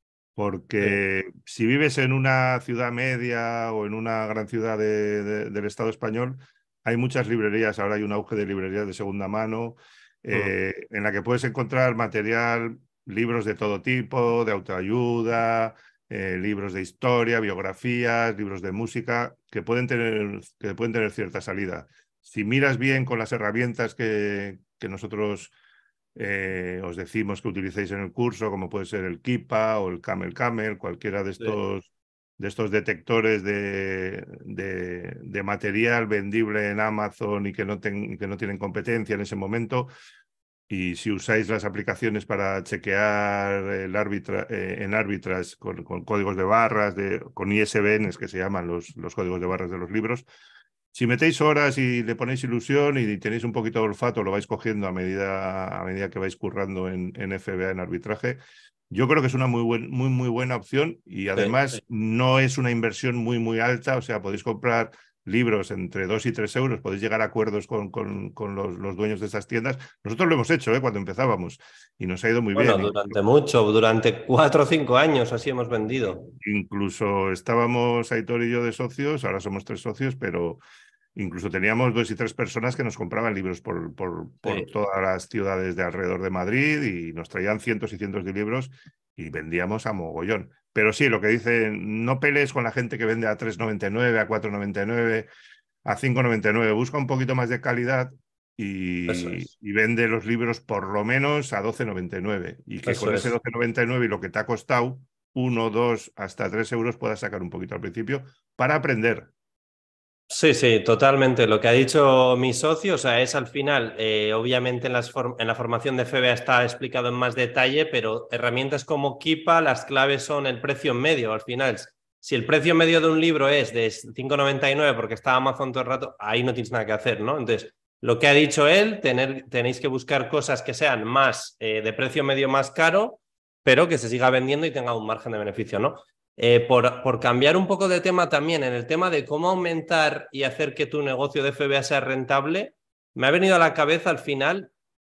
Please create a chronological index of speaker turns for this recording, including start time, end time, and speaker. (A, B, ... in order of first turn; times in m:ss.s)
0:00.4-0:25.5 A
0:26.2-0:31.9 A
0:32.4-0:39.9 A
0:40.7-0:50.2 A
0:50.9-0:58.4 A
0:58.9-1:13.2 A
1:12.5-1:16.3 B
1:16.4-1:20.6 A
1:21.1-1:35.3 A
1:24.4-1:24.7 B
1:35.8-1:49.3 A
1:39.1-1:39.4 B
1:42.8-1:43.3 B
1:50.3-2:24.7 B